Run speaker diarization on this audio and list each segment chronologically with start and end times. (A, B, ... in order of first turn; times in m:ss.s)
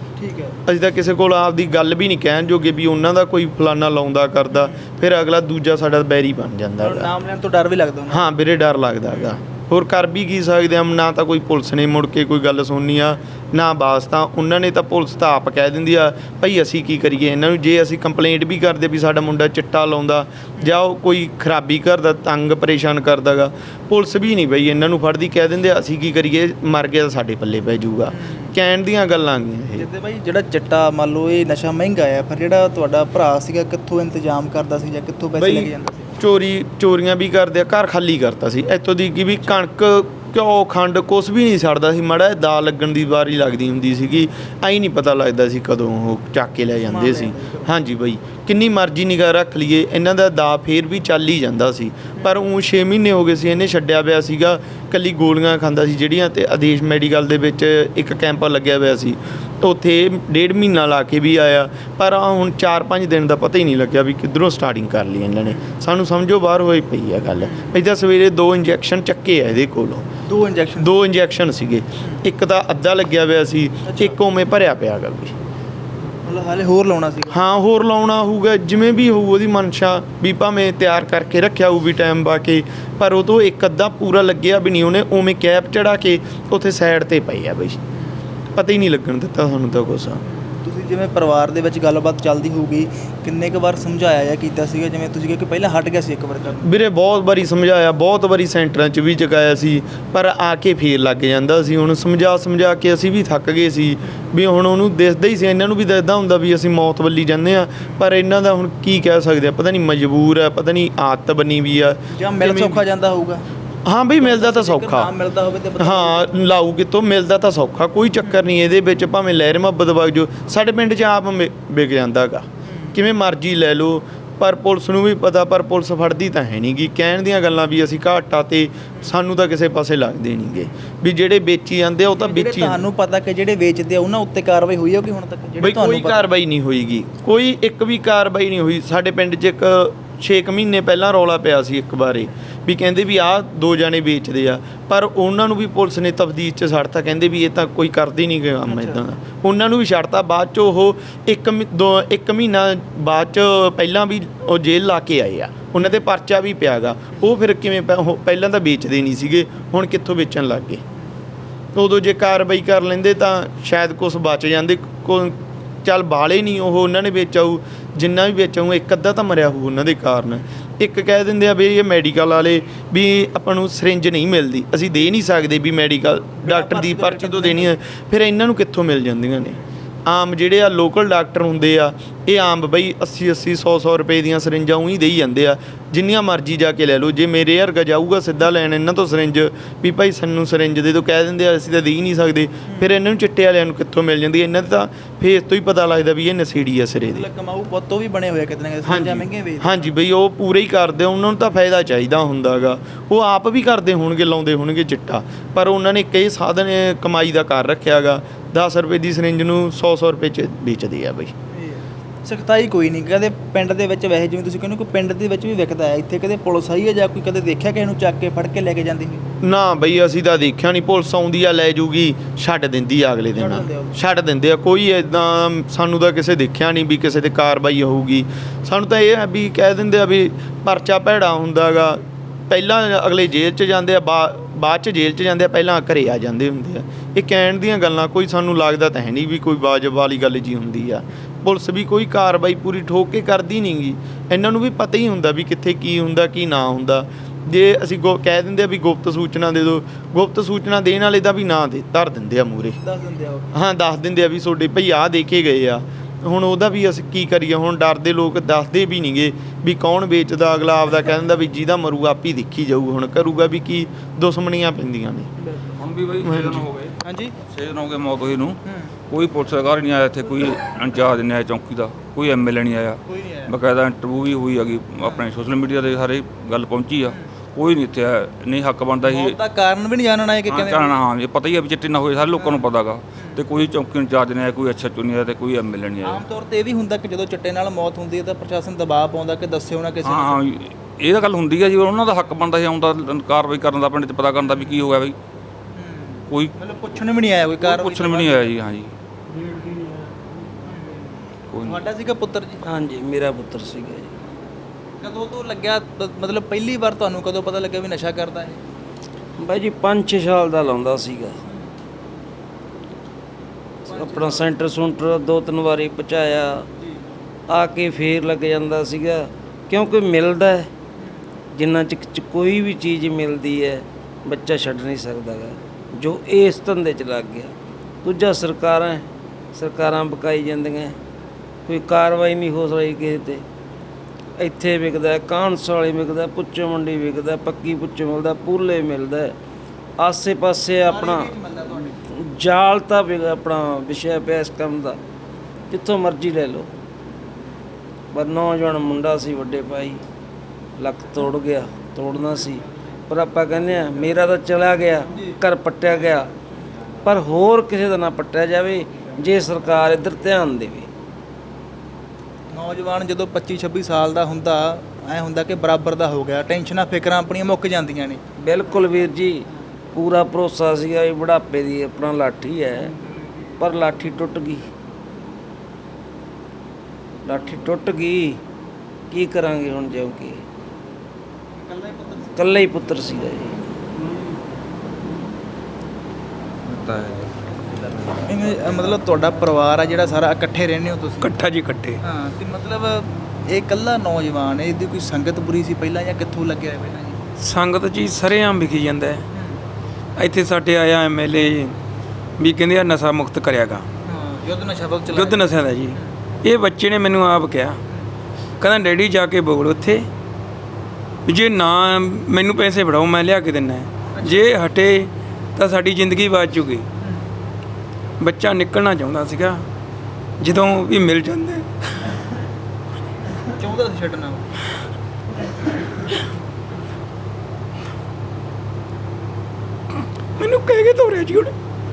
0:00.2-0:00.6 A
0:00.6-0:07.1 B
0:06.8-0:08.2 A
0:08.1-0:29.9 B
0:28.2-0:28.5 A
0:29.8-0:36.1 A
0:35.4-1:10.1 B
0:46.9-0:47.7 A
1:07.4-1:07.7 A
1:10.3-1:10.9 A
1:10.8-1:15.4 B
1:13.9-1:14.1 A
1:16.2-1:17.4 A
1:17.3-1:27.8 B
1:28.6-1:30.2 B
1:30.6-1:36.7 A
1:36.6-1:52.8 B
1:52.2-1:53.4 A
1:53.9-1:55.1 B
1:54.2-1:56.3 A
1:55.8-2:12.8 B
2:12.1-2:16.3 A
2:15.6-2:40.8 B
2:28.7-2:29.0 A
2:41.8-3:17.2 B
2:56.4-2:57.7 A
3:17.1-3:19.9 A
3:18.8-3:31.3 B
3:31.5-3:39.2 A
3:39.4-4:12.8 B
3:43.4-3:44.0 A
4:12.8-4:13.5 A
4:13.5-4:25.3 B
4:25.8-4:26.9 C
4:26.2-4:26.7 B
4:27.1-4:27.3 A
4:27.5-4:28.6 C
4:29.1-4:39.4 C
4:33.1-4:33.5 A
4:39.0-4:41.0 A
4:40.5-4:46.2 C
4:42.4-4:42.7 A
4:46.0-4:50.4 A
4:50.0-4:55.2 C
4:54.5-4:54.9 A
4:55.8-4:58.5 A
4:57.6-4:58.9 C
5:00.7-5:01.0 A
5:01.5-5:01.9 C
5:01.7-5:02.6 A
5:02.6-5:04.1 D
5:05.0-5:08.6 A
5:09.4-5:11.4 D
5:13.9-5:16.7 D
5:13.9-5:14.5 A
5:17.5-5:20.7 D
5:21.5-5:31.0 D
5:31.7-5:33.4 D
5:34.4-5:39.4 D
5:40.0-5:41.4 D
5:40.8-5:42.0 A
5:42.1-5:45.0 D
5:45.7-5:46.7 D
5:48.1-5:50.0 D
5:50.8-5:56.3 D
5:57.0-6:00.9 D
6:02.5-6:08.2 A
6:08.4-6:12.9 D
6:13.6-6:14.7 D
6:17.2-6:18.4 D
6:19.1-6:20.4 D
6:21.6-6:22.4 A
6:22.4-6:23.6 D
6:26.6-6:28.0 C
6:28.2-6:31.3 A
6:31.2-6:32.0 E
6:32.0-6:37.2 A
6:37.4-6:39.2 E
6:39.3-6:39.6 A
6:40.2-6:41.8 E
6:42.4-6:43.8 E
6:44.1-6:46.0 A
6:45.1-6:47.8 E
6:48.6-6:50.1 E
6:51.3-6:56.9 E
6:58.2-6:59.6 E
7:00.4-7:01.7 E
7:03.6-7:04.5 A
7:10.4-7:11.6 E